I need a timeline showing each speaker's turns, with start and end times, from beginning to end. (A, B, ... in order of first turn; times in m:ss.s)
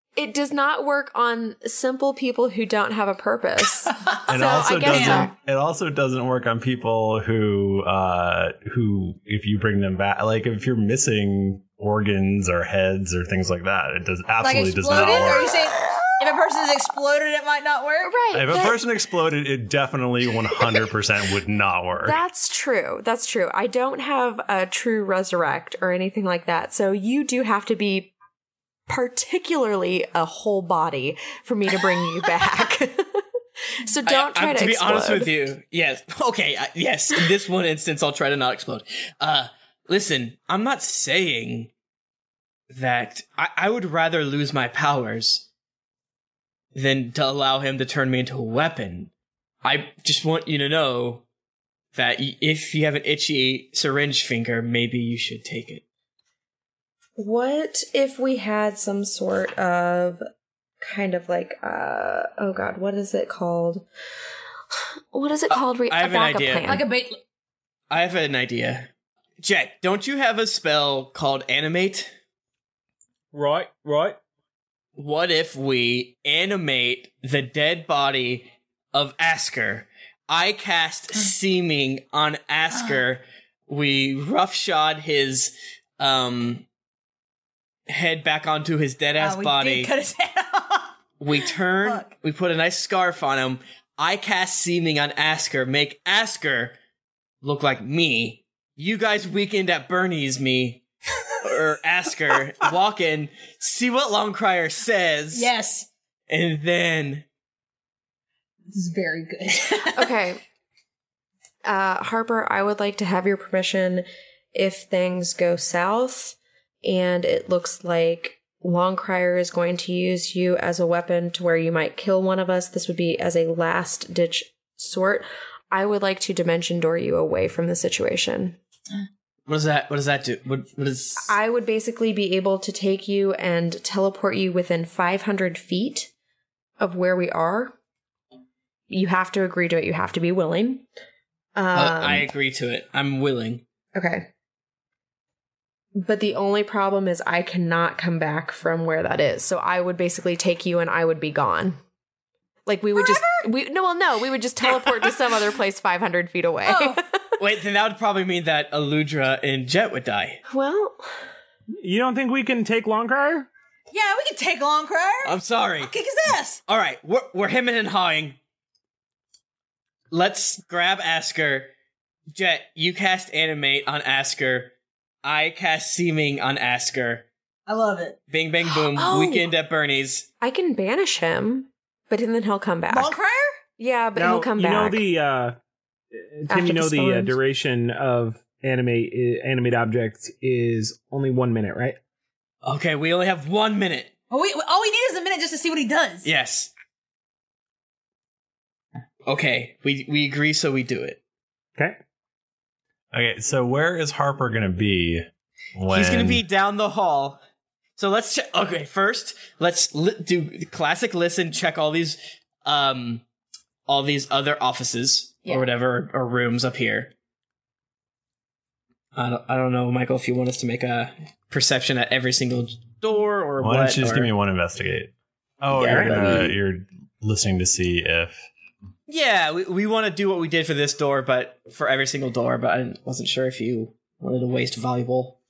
0:00.2-0:05.3 A
0:04.3-0:15.6 B
0:04.9-0:05.3 C
0:14.4-0:18.2 C
0:18.0-0:18.8 A
0:18.3-0:22.2 B
0:22.0-0:28.1 A
0:28.9-0:33.2 A
0:33.8-0:35.5 A
0:34.0-0:41.7 D
0:42.7-0:45.4 D
0:46.7-0:49.1 D
0:49.6-0:51.2 D
0:51.9-0:55.8 D
0:57.2-1:00.2 A
1:00.8-1:03.8 A
1:05.1-1:06.8 A
1:05.5-1:06.8 D
1:06.6-1:07.2 C
1:07.9-1:08.9 D
1:09.4-1:12.1 D
1:13.3-1:14.2 E
1:15.0-1:26.6 D
1:27.9-1:29.9 D
1:29.2-1:30.9 C
1:31.2-1:36.7 D
1:31.4-1:32.1 C
1:37.4-1:40.8 D
1:41.4-1:45.5 D
1:45.3-1:45.9 C
1:46.3-1:47.2 D
1:48.7-1:50.1 C
1:49.9-1:50.4 A
1:51.6-2:08.6 A
2:09.5-2:11.3 D
2:11.2-2:16.1 A
2:16.8-2:17.7 A
2:18.9-2:20.8 A
2:21.6-2:22.3 A
2:21.7-2:23.6 D
2:23.9-2:24.3 A
2:25.9-2:31.8 A
2:32.6-2:37.2 A
2:32.9-2:33.4 C
2:34.7-2:35.1 C
2:36.6-2:37.0 C
2:37.4-2:40.4 D
2:40.5-2:41.1 A
2:41.8-2:43.5 E
2:43.9-2:45.3 C
2:45.2-2:45.9 D
2:45.8-2:46.6 C
2:46.7-2:48.4 D
2:50.1-2:51.7 D
2:52.3-2:54.7 D
2:55.2-2:57.2 D
2:57.7-2:58.2 C
2:58.3-3:00.3 D
2:58.9-2:59.5 A
3:00.4-3:03.2 A
3:02.9-3:03.6 C
3:03.8-3:05.0 A
3:04.1-3:05.5 E
3:06.1-3:12.0 E
3:06.5-3:07.4 A
3:12.6-3:14.1 D
3:14.3-3:16.3 C
3:16.2-3:16.7 D
3:19.3-3:21.2 D
3:23.1-3:26.4 B
3:25.9-3:27.4 D
3:28.0-3:33.2 D
3:33.9-3:37.1 D
3:39.1-3:44.3 D
3:43.6-3:48.4 B
3:45.7-3:46.5 D
3:45.9-3:46.5 E
3:49.1-3:55.4 D